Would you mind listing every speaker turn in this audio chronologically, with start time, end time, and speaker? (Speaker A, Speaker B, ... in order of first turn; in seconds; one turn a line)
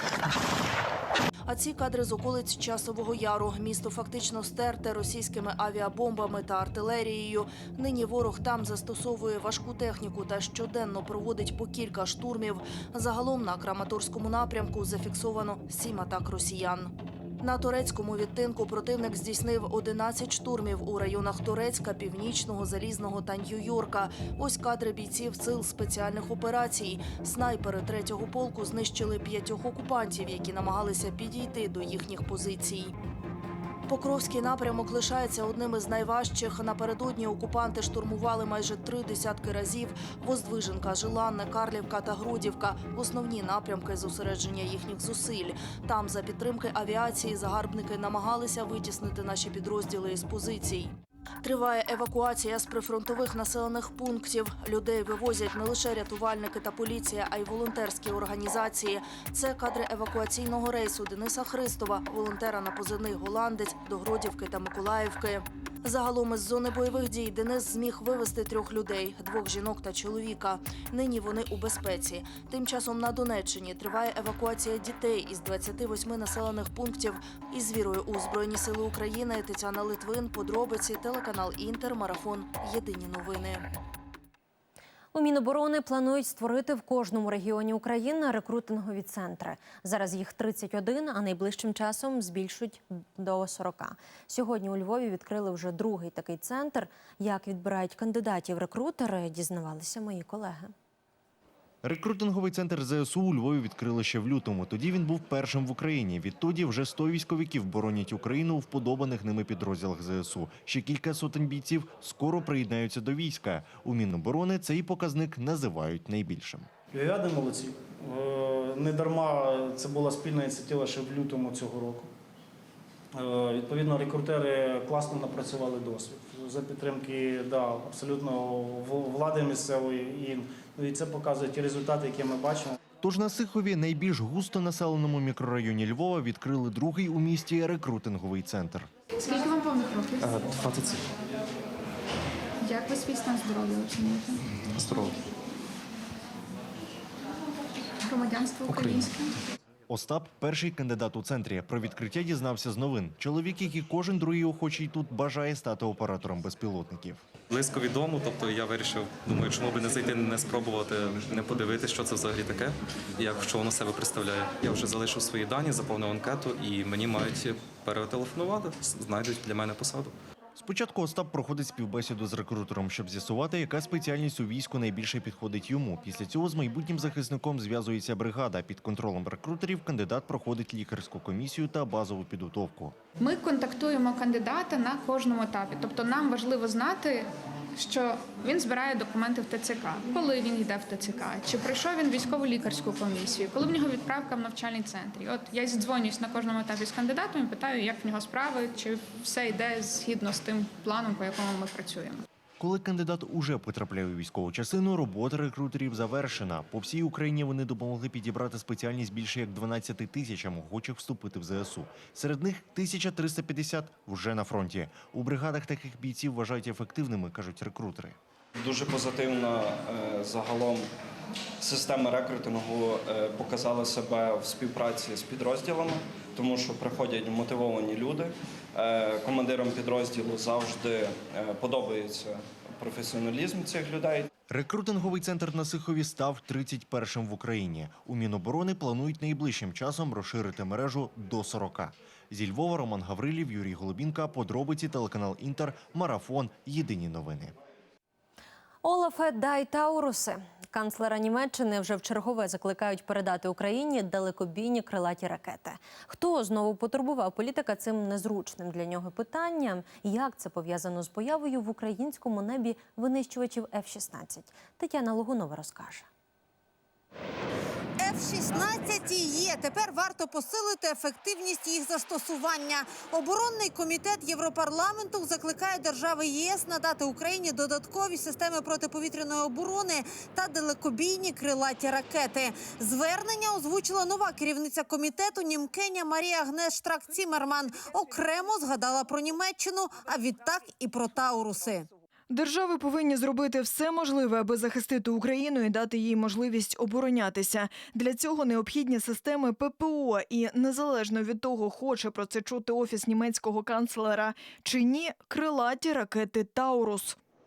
Speaker A: 1.5-32.9
Speaker A: 33.9-50.9
Speaker A: 51.4-83.7
Speaker B: 85.1-100.7
Speaker C: 101.8-116.7
Speaker D: 116.9-122.1
Speaker D: 123.1-132.7
Speaker C: 133.0-138.9
Speaker E: 139.2-140.4
Speaker F: 140.5-141.0
Speaker E: 142.6-144.4
Speaker F: 144.8-145.1
Speaker E: 148.0-149.3
Speaker C: 149.9-157.2
Speaker F: 157.5-170.1
Speaker C: 170.6-182.9
Speaker E: 183.2-202.2
Speaker C: 202.6-218.2
Speaker G: 218.6-220.8
Speaker G: 221.6-234.3
Speaker C: 234.5-247.6
Speaker B: 248.8-266.1
Speaker H: 268.0-291.9
Speaker I: 292.3-307.2